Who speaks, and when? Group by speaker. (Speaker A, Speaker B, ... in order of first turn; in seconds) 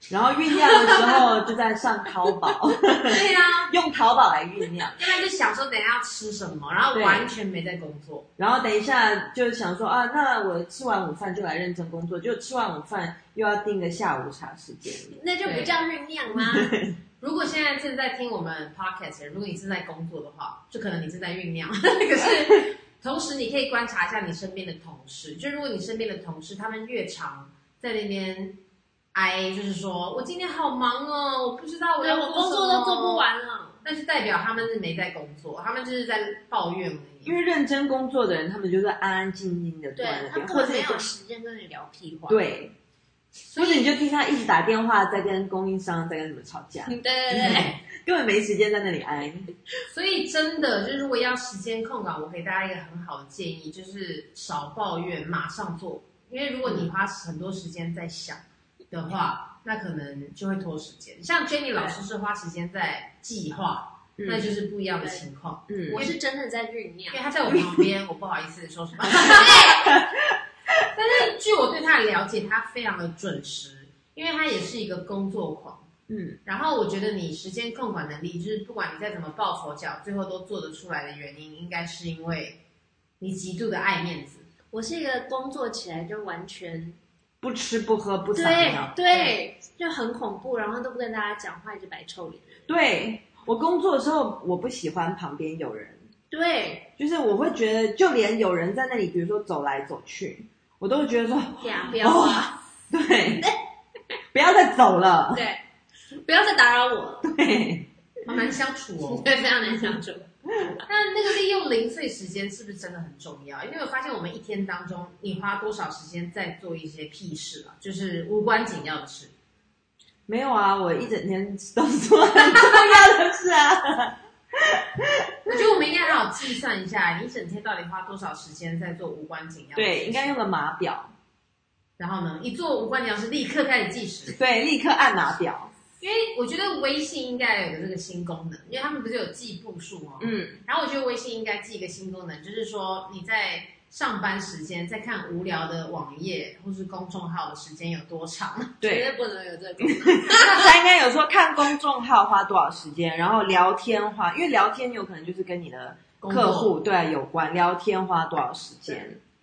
Speaker A: 0.1-5.2, 6.9-7.3, 8.4-15.2, 16.3-16.9, 37.2-41.1, 42.3-42.8, 43.5-49.5, 64.2-64.5, 65.7-66.0, 67.5-67.9, 69.2-70.8, 76.1-76.4, 87.4-89.2, 92.7-96.1, 97.0-103.5, 104.3-105.4, 107.2-107.9, 120.3-125.6, 129.8-131.1, 134.3-135.7, 140.2-140.6, 148.8-149.1, 149.8-159.2
Speaker B: 0.7-1.2, 3.0-3.7, 5.0-8.3, 15.4-15.8, 17.2-28.6, 29.1-33.3, 33.8-37.4, 43.5-43.9, 47.4-47.7, 49.9-66.2, 67.1-69.8, 70.9-75.9, 76.5-82.6, 83.2-84.4, 108.3-109.4, 110.9-119.3, 125.5-130.3, 132.0-134.4, 136.0-148.8, 156.2-156.7
Speaker C: 15.1-16.8, 32.0-33.8, 40.0-42.4, 46.9-47.8, 65.9-67.2, 69.1-70.0, 84.7-87.0, 88.3-92.7, 96.3-96.9, 101.6-102.6, 105.3-107.3, 109.0-110.3, 148.8-150.7